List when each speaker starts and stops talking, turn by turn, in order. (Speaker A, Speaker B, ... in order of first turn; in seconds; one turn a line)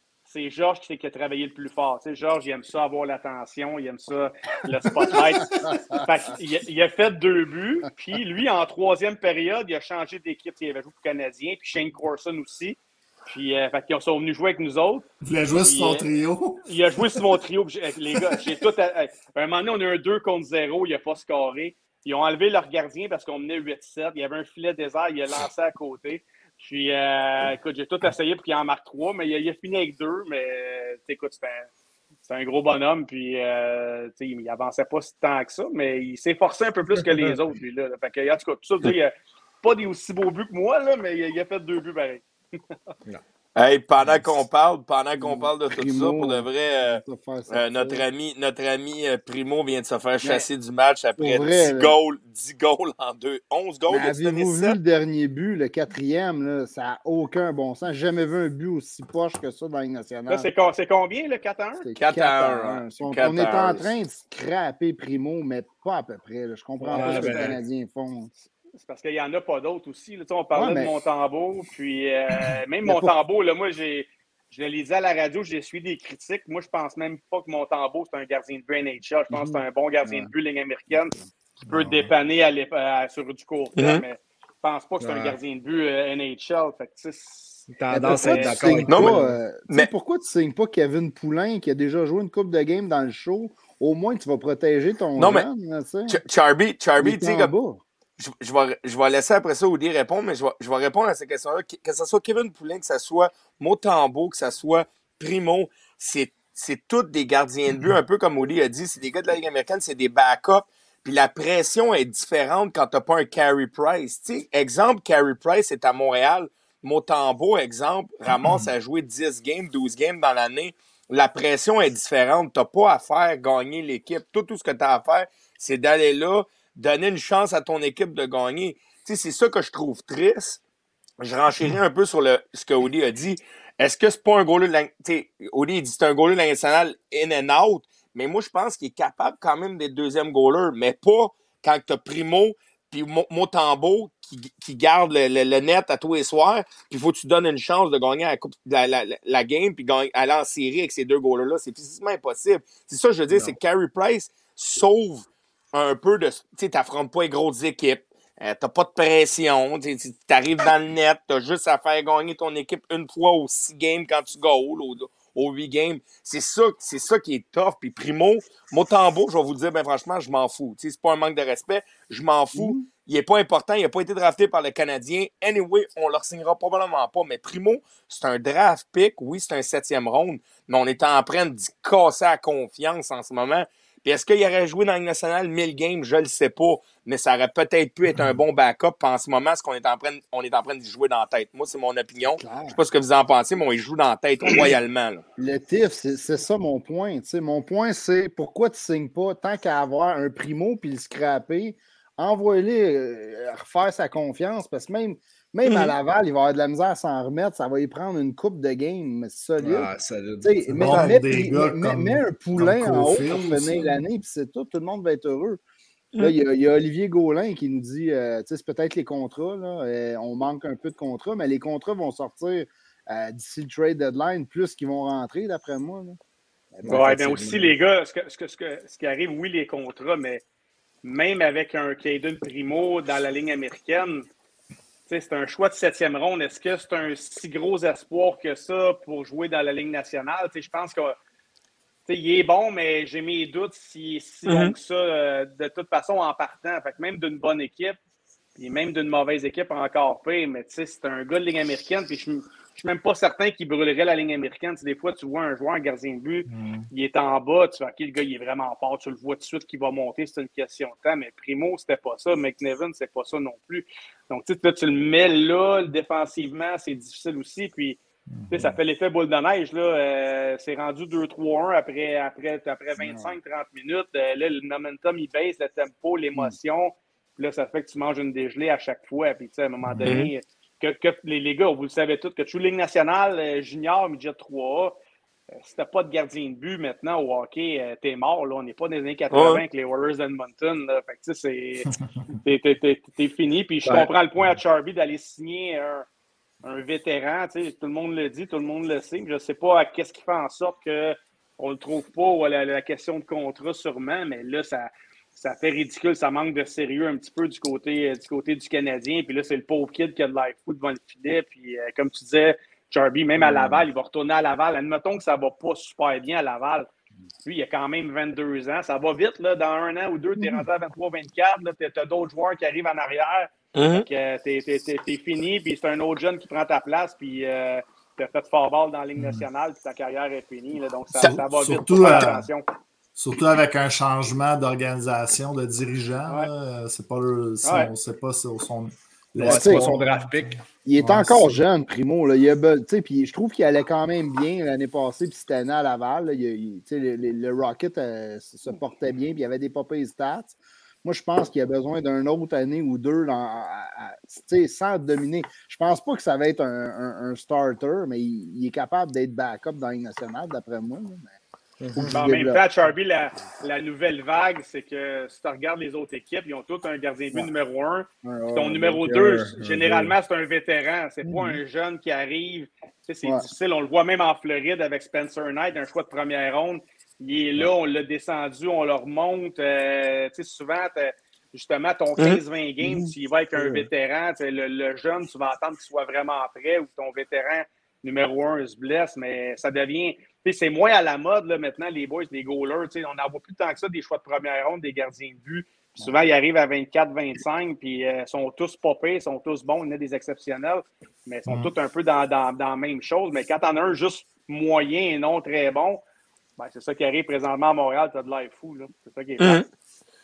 Speaker A: 0.3-15.1
Speaker B: 5.5-6.0
Speaker C: 15.2-17.3
Speaker A: 15.6-16.1
Speaker A: 16.6-31.7
Speaker C: 18.1-18.4
Speaker A: 32.2-42.2
Speaker D: 43.5-54.8
Speaker B: 45.2-48.0
Speaker B: 51.2-51.9
Speaker B: 53.9-60.5
Speaker A: 60.3-61.9
Speaker B: 61.8-68.4
Speaker D: 62.0-63.9
Speaker E: 66.8-67.6
Speaker A: 66.9-67.5
Speaker A: 68.8-81.1
Speaker B: 70.5-70.9
Speaker B: 72.8-73.1
Speaker B: 79.3-80.3
Speaker B: 81.0-81.3
Speaker C: 81.6-82.1
Speaker A: 81.7-88.8
Speaker D: 83.8-84.0
Speaker E: 85.0-85.4
Speaker E: 87.7-89.4
Speaker B: 87.9-96.2
Speaker D: 88.9-89.1
Speaker D: 95.2-95.5
Speaker D: 96.1-97.5
Speaker B: 97.0-97.8
Speaker D: 98.2-130.6
Speaker C: 118.3-118.7
Speaker D: 131.2-195.2
Speaker E: 153.3-153.6
Speaker B: 172.5-172.8
Speaker B: 192.4-192.8
Speaker B: 195.4-209.9
Speaker D: 205.6-205.9
Speaker E: 209.6-210.8
Speaker B: 210.4-215.6
Speaker C: 210.7-213.9
Speaker D: 210.8-211.1
Speaker B: 216.2-226.2
Speaker B: 226.7-227.1
Speaker E: 226.8-227.7
Speaker A: 226.8-230.4
Speaker A: 231.0-234.3
Speaker A: 235.1-241.2
Speaker A: 242.1-248.0
Speaker D: 244.4-244.7
Speaker A: 248.6-268.0
Speaker C: 256.5-256.9
Speaker C: 268.3-268.8
Speaker A: 268.5-284.9
Speaker B: 273.0-273.3
Speaker D: 280.0-280.3
Speaker A: 285.6-291.9
Speaker D: 289.3-289.6
Speaker A: 292.4-296.1
Speaker A: 296.6-316.9
Speaker B: 313.4-313.8
Speaker A: 317.4-332.6
Speaker D: 323.7-324.0
Speaker C: 329.2-329.4
Speaker C: 331.1-332.5
Speaker C: 333.2-340.1
Speaker A: 337.6-337.9
Speaker E: 339.4-340.6
Speaker B: 339.4-339.9
Speaker B: 340.8-361.3
Speaker C: 340.9-341.5
Speaker E: 361.8-362.3
Speaker B: 361.9-362.6
Speaker A: 362.1-406.0
Speaker B: 368.2-369.0
Speaker E: 369.0-370.1
Speaker B: 371.2-371.6
Speaker B: 382.8-383.8
Speaker A: 406.6-409.6
Speaker D: 409.4-409.6